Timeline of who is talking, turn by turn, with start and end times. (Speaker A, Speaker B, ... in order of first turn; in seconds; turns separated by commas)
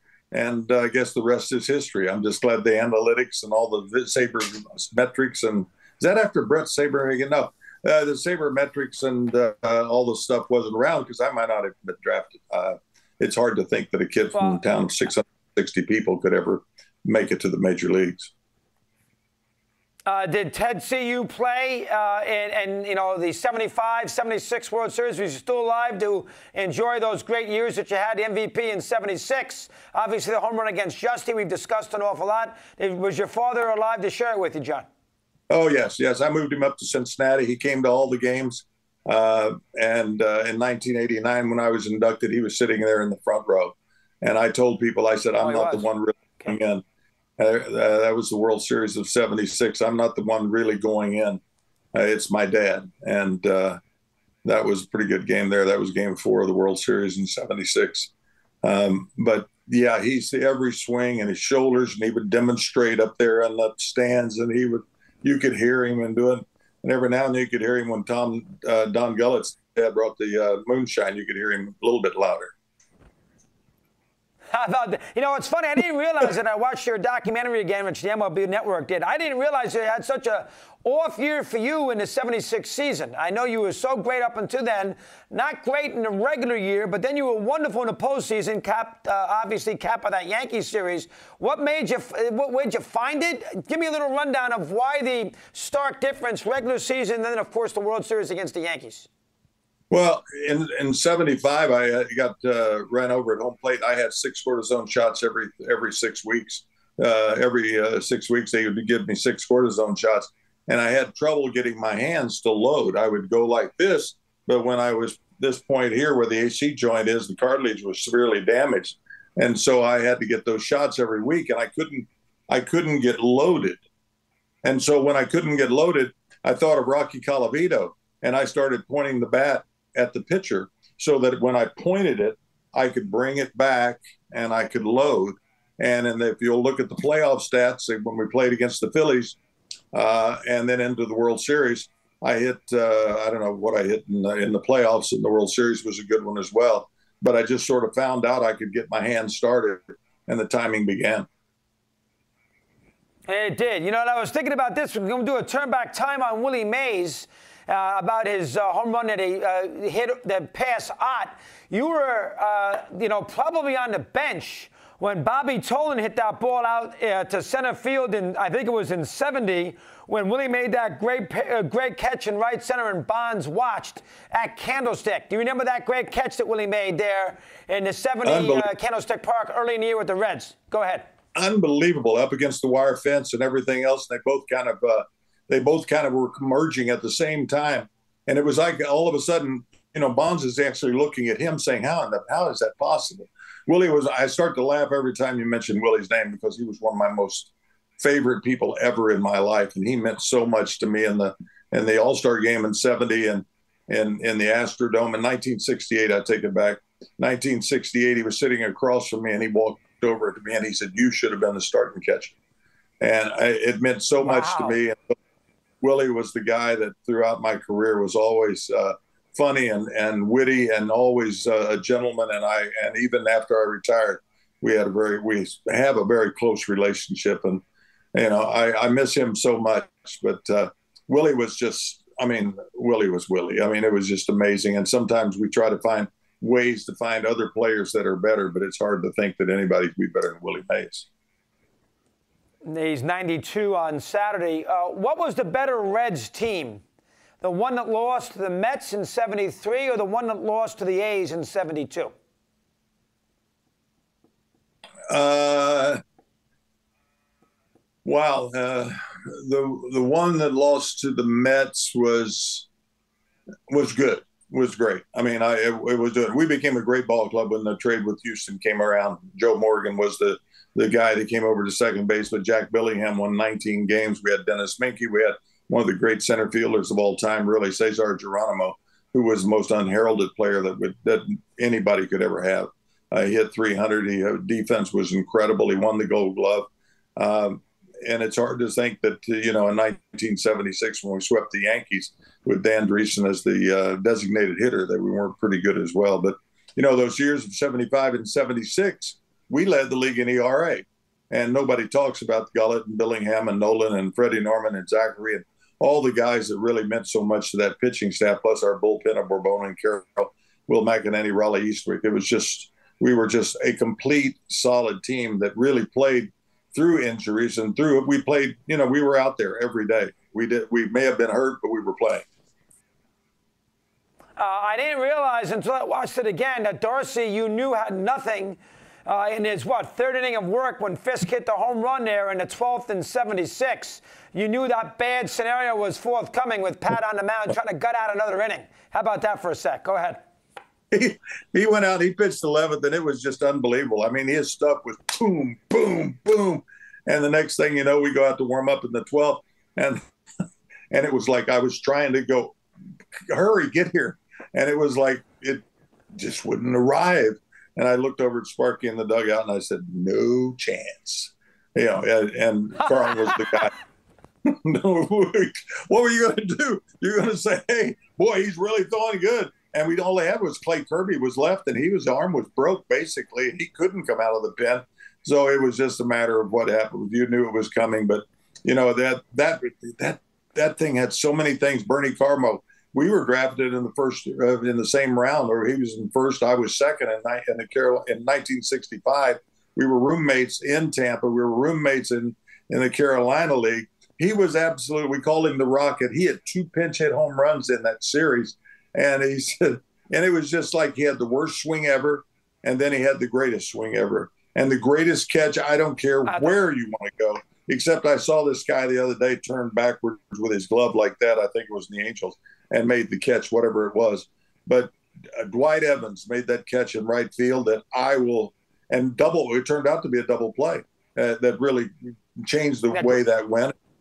Speaker A: 0.3-18.3, Speaker B: 14.3-14.6, Speaker B: 20.1-34.9, Speaker A: 35.5-46.8, Speaker B: 45.4-46.5, Speaker A: 47.4-51.4, Speaker A: 51.9-53.8, Speaker A: 54.4-58.1, Speaker A: 58.6-72.5, Speaker B: 74.5-99.1, Speaker A: 99.9-123.8, Speaker A: 124.6-139.4, Speaker A: 139.9-151.3, Speaker B: 153.3-181.1, Speaker A: 178.2-178.7, Speaker A: 181.3-212.3, Speaker A: 213.0-215.2, Speaker B: 214.2-214.8, Speaker A: 215.8-227.6, Speaker A: 228.2-241.1, Speaker B: 242.7-246.8, Speaker B: 247.4-252.1, Speaker A: 255.1-256.0, Speaker A: 258.1-262.7, Speaker A: 263.7-322.2, Speaker B: 324.4-340.2, Speaker A: 340.9-350.0, Speaker A: 350.9-352.6, Speaker A: 353.3-355.6, Speaker A: 356.2-363.7, Speaker A: 364.5-423.7, Speaker B: 406.3-406.6, Speaker B: 422.9-423.2